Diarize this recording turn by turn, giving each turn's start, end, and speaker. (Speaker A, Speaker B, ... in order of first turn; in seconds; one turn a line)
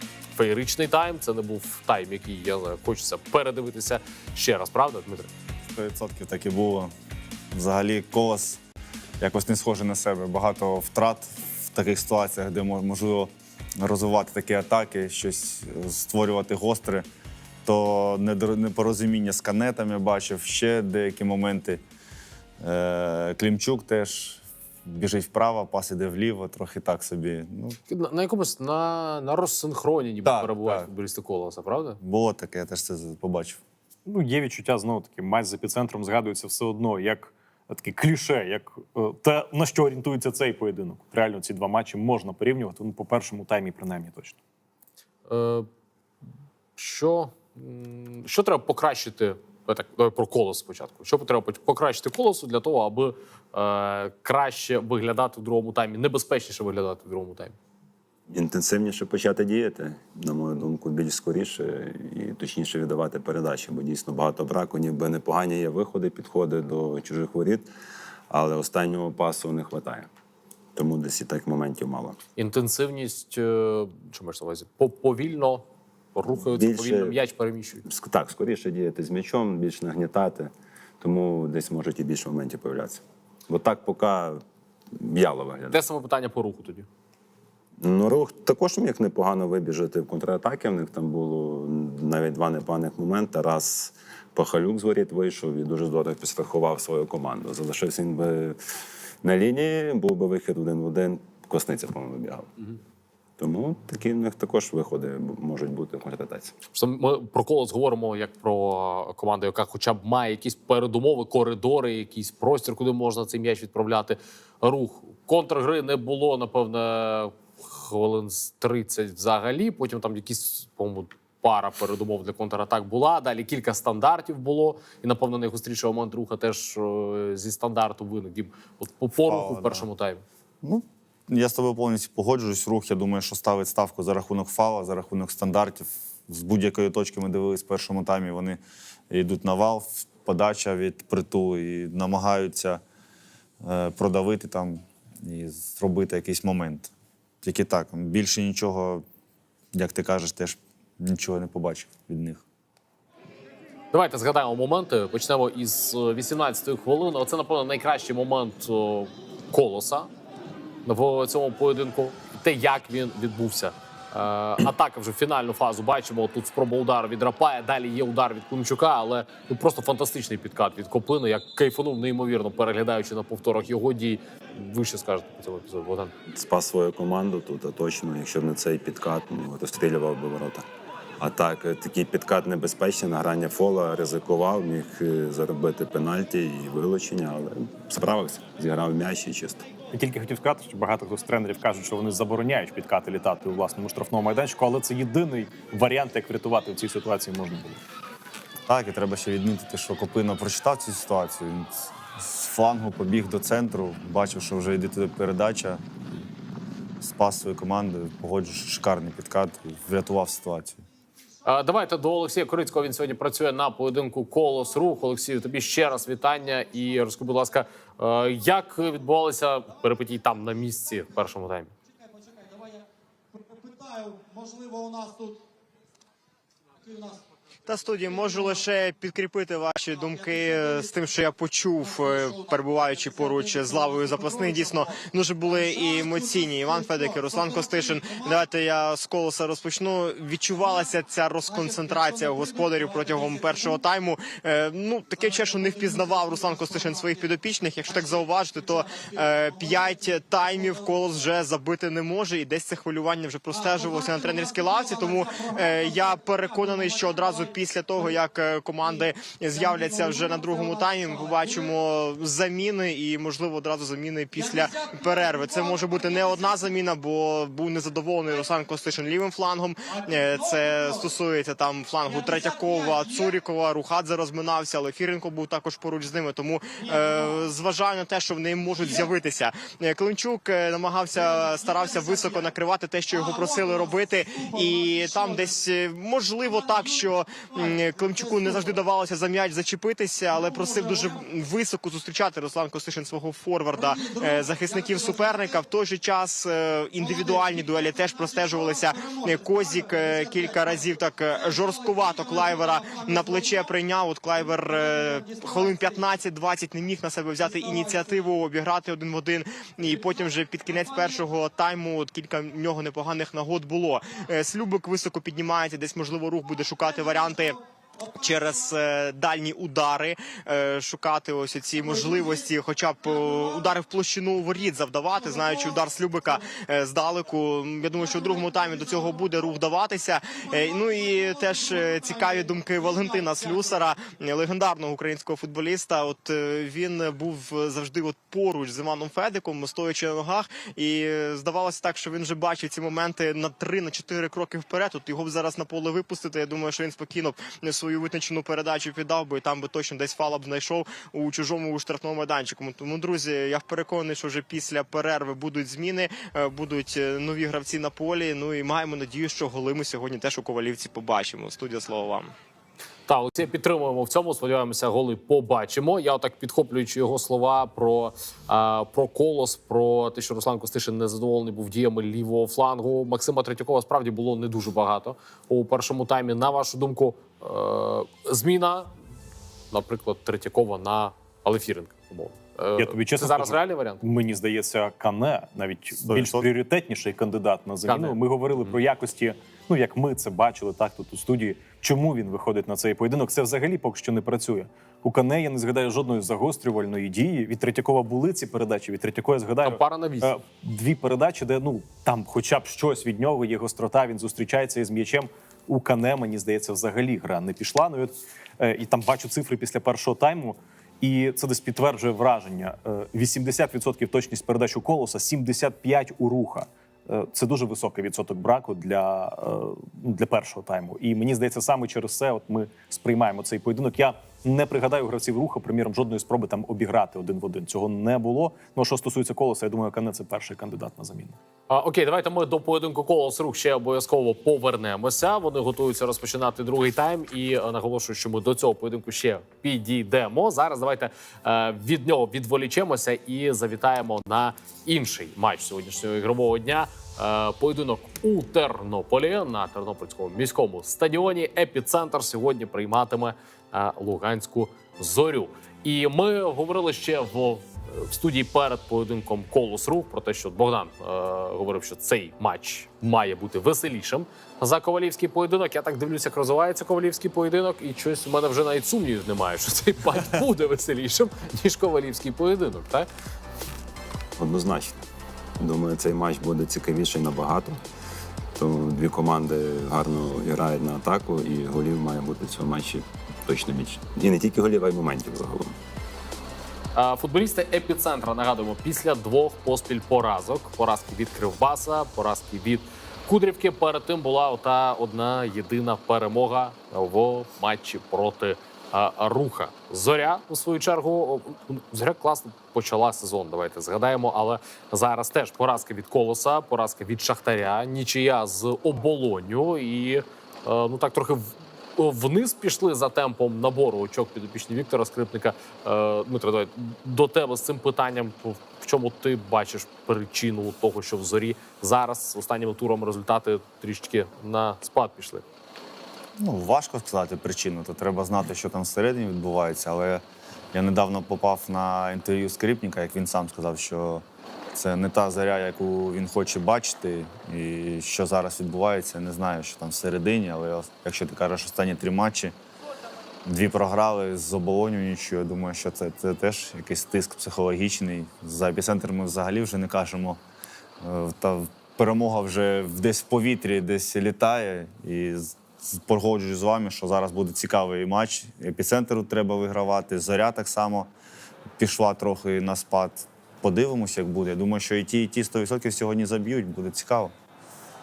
Speaker A: 0.3-5.3
Speaker B: 5.7-6.9
Speaker B: 7.5-8.6
Speaker B: 9.2-17.1
Speaker B: 17.6-21.8
Speaker B: 22.6-27.8
Speaker A: 27.9-32.0
Speaker B: 30.2-30.9
Speaker B: 32.0-33.6
Speaker C: 34.1-44.4
Speaker A: 45.3-45.7
Speaker A: 46.8-57.6
Speaker D: 58.3-67.7
Speaker D: 68.3-70.1
Speaker D: 70.8-72.2
Speaker A: 72.4-77.8
Speaker D: 76.5-77.2
Speaker D: 77.8-84.4
Speaker D: 84.9-85.8
Speaker A: 85.7-86.9
Speaker D: 87.8-98.6
Speaker D: 99.2-102.5
Speaker D: 103.4-106.5
Speaker A: 106.7-130.2
Speaker B: 129.2-129.9
Speaker B: 130.6-142.8
Speaker B: 143.6-149.0
Speaker B: 149.7-152.4
Speaker A: 153.9-160.1
Speaker A: 160.8-176.1
Speaker D: 176.3-180.7
Speaker D: 181.2-189.7
Speaker C: 189.9-197.8
Speaker B: 198.7-205.8
Speaker B: 207.0-210.8
Speaker A: 211.4-221.7
Speaker E: 222.0-225.4
Speaker E: 226.8-227.2
Speaker F: 227.7-317.6
Speaker E: 228.1-228.6
Speaker E: 229.9-231.0
Speaker E: 231.8-238.4
Speaker E: 240.6-240.9
Speaker E: 241.5-243.8
Speaker E: 245.2-247.3
Speaker E: 247.9-251.2
Speaker E: 253.5-258.2
Speaker E: 258.8-261.8
Speaker E: 264.3-266.6
Speaker E: 269.9-271.2
Speaker E: 272.1-273.4
Speaker E: 276.8-277.4
Speaker E: 278.8-279.1
Speaker E: 281.2-282.5
Speaker E: 283.1-285.6
Speaker E: 286.4-288.8
Speaker E: 290.3-291.2
Speaker E: 293.7-295.6
Speaker E: 297.0-303.7
Speaker E: 304.6-306.1
Speaker E: 307.4-308.2
Speaker E: 309.9-311.2
Speaker E: 316.9-317.5
Speaker E: 318.0-318.7
Speaker F: 318.2-362.3
Speaker E: 321.8-322.5
Speaker E: 323.0-323.7
Speaker E: 325.2-326.5
Speaker E: 328.0-329.4
Speaker E: 330.4-333.9
Speaker A: 363.1-378.9
Speaker A: 379.7-384.0
Speaker C: 382.8-431.4
Speaker B: 386.0-386.5
Speaker A: 387.9-388.8
Speaker A: 399.6-400.3
Speaker A: 431.7-473.1
Speaker D: 474.4-475.0
Speaker D: 475.6-477.8
Speaker D: 478.6-485.8
Speaker A: 486.9-525.4
Speaker B: 526.4-542.5
Speaker B: 543.5-550.4
Speaker B: 551.0-561.1
Speaker B: 561.8-567.3